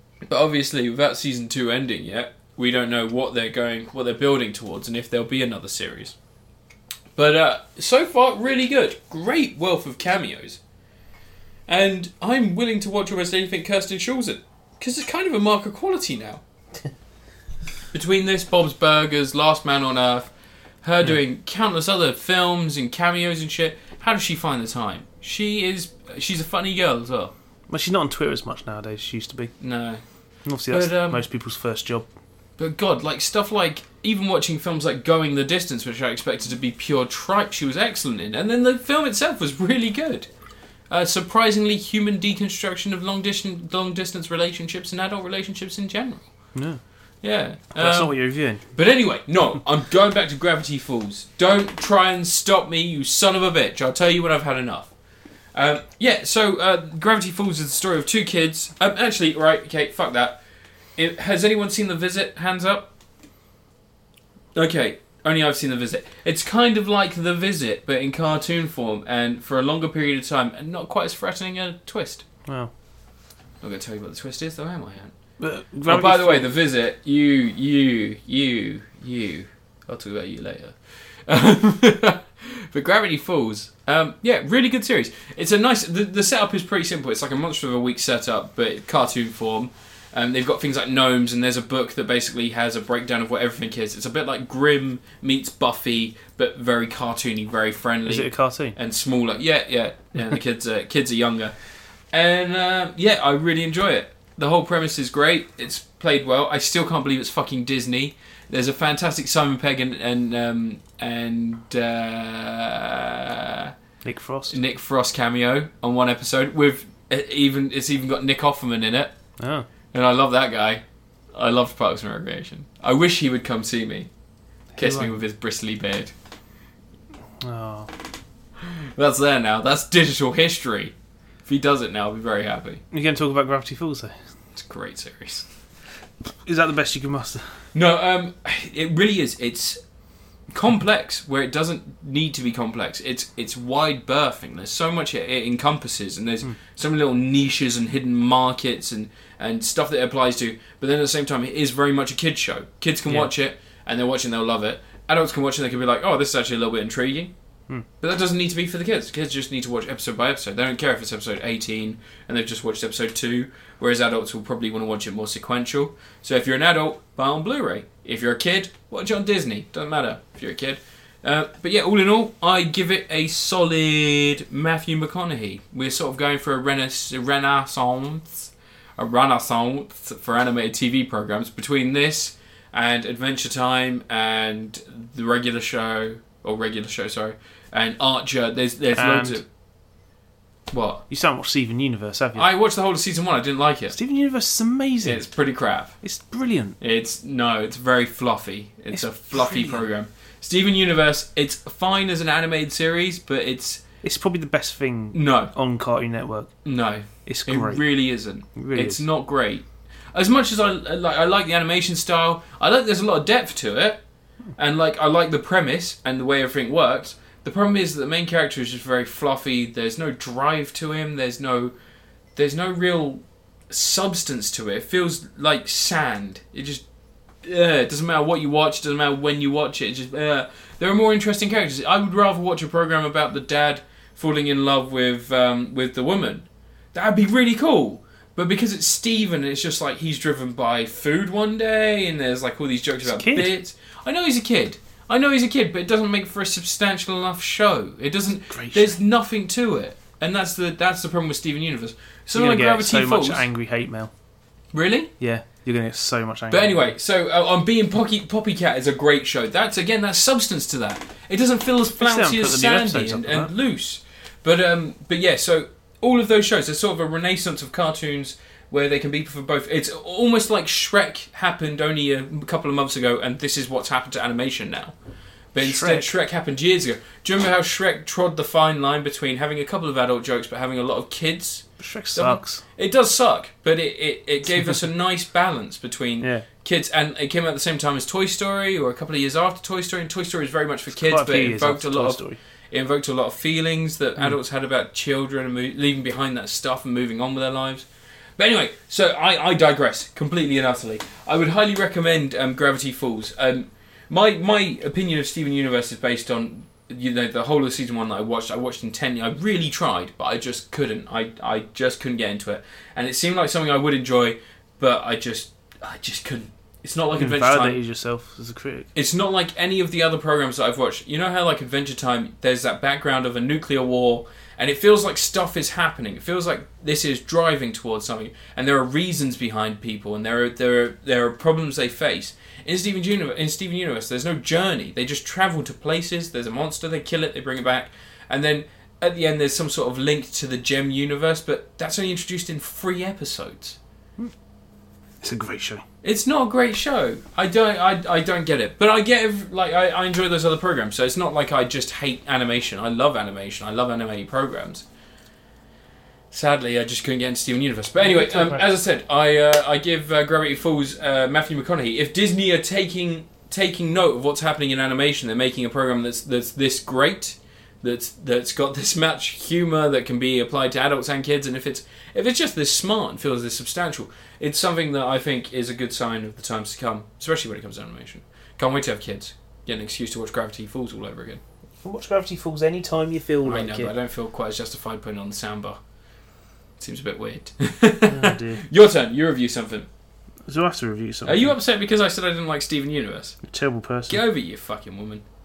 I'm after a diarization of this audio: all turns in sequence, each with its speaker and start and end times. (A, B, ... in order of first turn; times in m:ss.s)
0:00.2-0:06.2 A
0:07.1-0:10.6 A
0:11.7-0:16.4 A
0:17.9-0:20.3 A
0:20.8-0:27.3 A
0:27.7-0:29.5 B
0:29.6-0:30.0 A
0:30.4-0:32.0 B
0:30.7-0:31.2 A
0:32.6-0:40.3 A
0:40.9-0:46.3 A
0:46.5-0:46.8 B
0:47.2-0:48.2 A
0:47.7-0:48.6 B
0:48.7-0:54.9 A
0:55.5-1:00.4 A
1:01.0-1:02.9 A
1:04.5-1:12.2 A
1:13.6-1:15.1 A
1:15.4-1:16.4 B
1:15.9-1:41.5 A
1:38.1-1:38.8 B
1:42.1-1:53.7 A
1:54.0-1:54.6 B
1:54.5-1:59.1 A
1:59.4-1:59.7 B
1:59.9-2:00.8 A
2:01.3-2:04.1 A
2:04.8-2:05.2 B
2:04.8-2:06.1 A
2:07.4-2:07.9 B
2:08.6-2:10.9 A
2:11.4-2:12.8 A
2:12.9-2:14.1 B
2:14.5-2:15.4 A
2:16.4-2:17.5 B
2:17.7-2:19.8 A
2:20.5-2:37.3 A
2:38.0-3:09.4 A
3:09.0-3:09.4 B
3:10.7-3:11.0 A
3:11.1-3:12.5 B
3:12.4-3:13.9 A
3:13.9-3:15.2 B
3:15.0-3:16.0 A
3:16.0-3:16.8 B
3:16.8-3:23.8 A
3:18.9-3:19.8 B
3:24.0-3:26.5 B
3:25.1-3:25.5 A
3:26.6-3:34.0 A
3:27.2-3:27.8 B
3:28.6-3:29.0 B
3:34.6-3:41.7 A
3:42.4-3:46.8 A
3:47.4-4:13.4 A
4:03.0-4:03.5 B
4:08.5-4:09.0 B
4:12.4-4:14.1 B
4:14.7-4:15.1 A
4:15.2-4:16.9 B
4:16.5-4:34.9 A
4:22.0-4:23.5 B
4:35.5-4:57.9 A
4:35.6-4:36.1 B
4:41.8-4:42.6 B
4:46.2-4:46.5 B
4:50.9-4:52.4 B
4:58.4-5:17.8 A
5:17.2-5:18.9 B
5:18.9-5:43.8 A
5:45.2-5:45.8 B
5:46.0-5:54.8 A
5:56.3-6:21.4 A
5:58.0-5:58.6 B
6:21.8-6:23.9 B
6:23.4-6:25.8 A
6:26.8-6:29.9 A
6:28.0-6:28.6 B
6:30.5-6:31.5 B
6:31.2-6:33.4 A
6:33.4-6:34.2 B
6:34.1-6:35.2 A